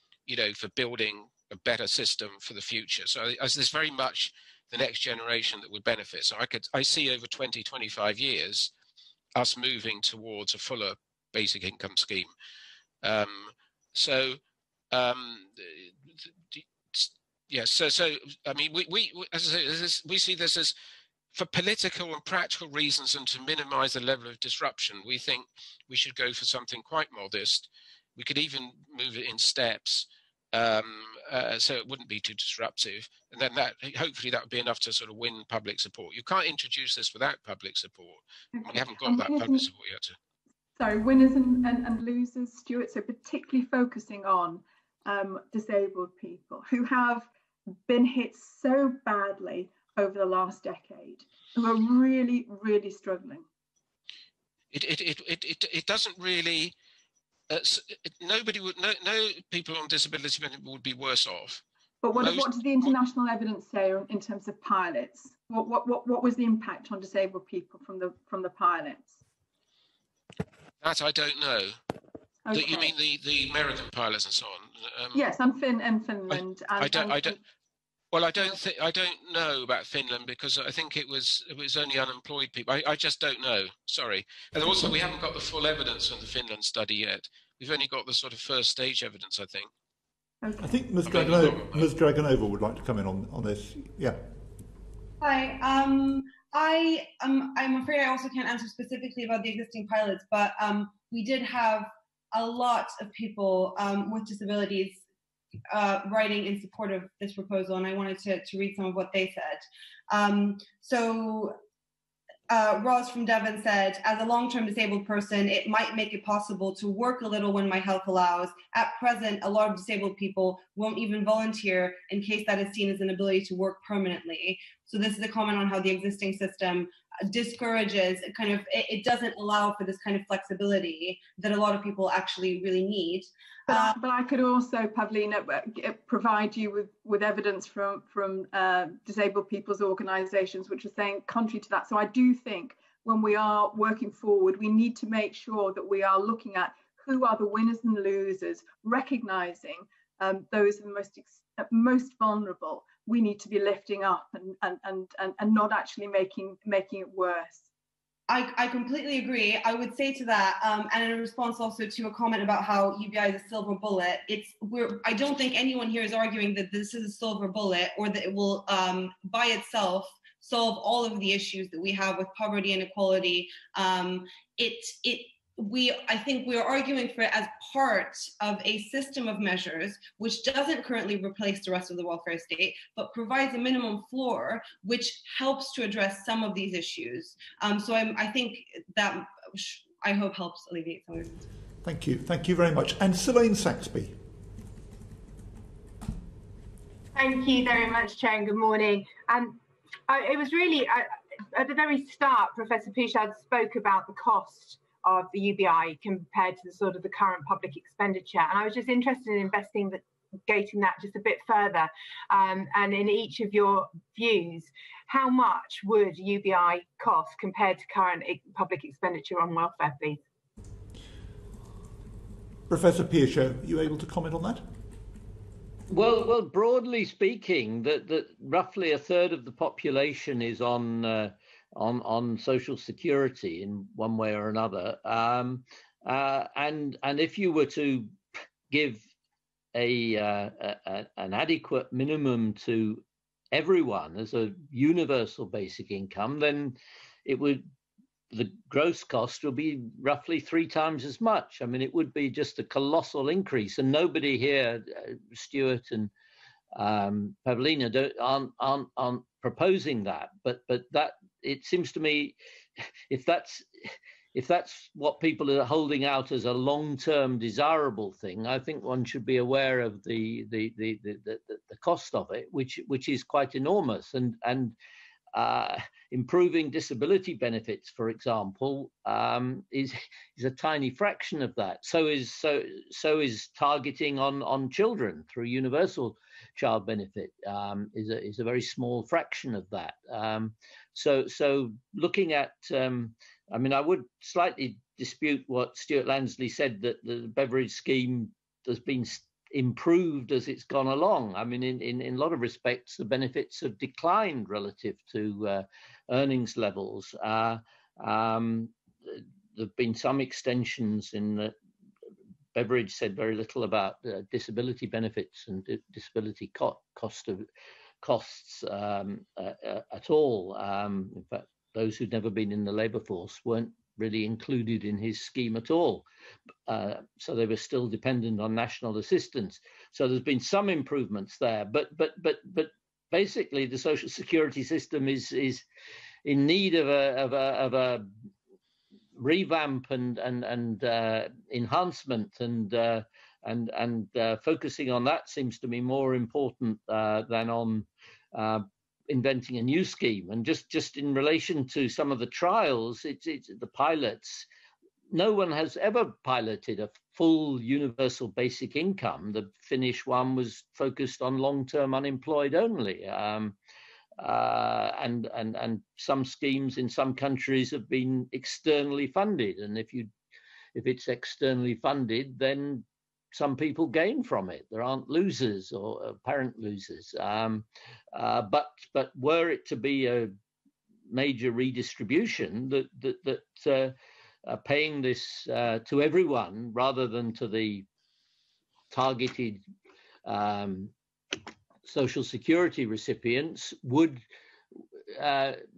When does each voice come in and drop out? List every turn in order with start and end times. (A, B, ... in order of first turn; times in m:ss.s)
0:00.2-0:08.7 A
0:09.3-0:12.3 A
0:13.0-0:14.4 A
0:14.9-0:20.7 A
0:21.3-0:40.2 A
0:38.5-0:39.7 B
0:40.8-0:53.4 B
0:54.7-0:56.7 A
0:57.5-1:01.6 A
1:02.0-1:09.2 B
1:02.2-1:02.9 A
1:10.8-1:11.8 A
1:12.4-1:12.9 B
1:12.5-1:15.2 A
1:15.1-1:17.4 B
1:16.3-1:17.3 A
1:18.1-1:29.7 A
1:30.4-1:30.7 B
1:30.6-1:34.2 C
1:31.0-1:31.8 A
1:35.2-1:45.0 D
1:45.7-1:51.5 D
1:52.5-2:14.0 D
2:13.7-2:37.6 B
2:38.3-3:11.4 D
3:11.8-3:14.2 C
3:17.1-3:40.2 E
3:42.7-3:44.6 C
3:45.9-3:58.2 F
3:58.7-3:59.0 F
3:59.7-4:07.7 F
4:08.3-4:16.1 F
4:16.7-4:22.4 F
4:23.1-4:34.8 F
4:35.3-5:11.5 F
5:12.5-5:17.4 F
5:18.0-5:26.0 F
5:26.7-5:35.6 F
5:36.2-5:38.1 F
5:39.2-5:54.5 F
5:55.1-6:03.6 F
6:04.2-6:10.1 F
6:10.7-6:20.3 F
6:21.1-6:27.8 F
6:28.9-6:29.6 F
6:30.2-6:30.9 F
6:31.8-6:34.2 F
6:35.1-6:35.6 F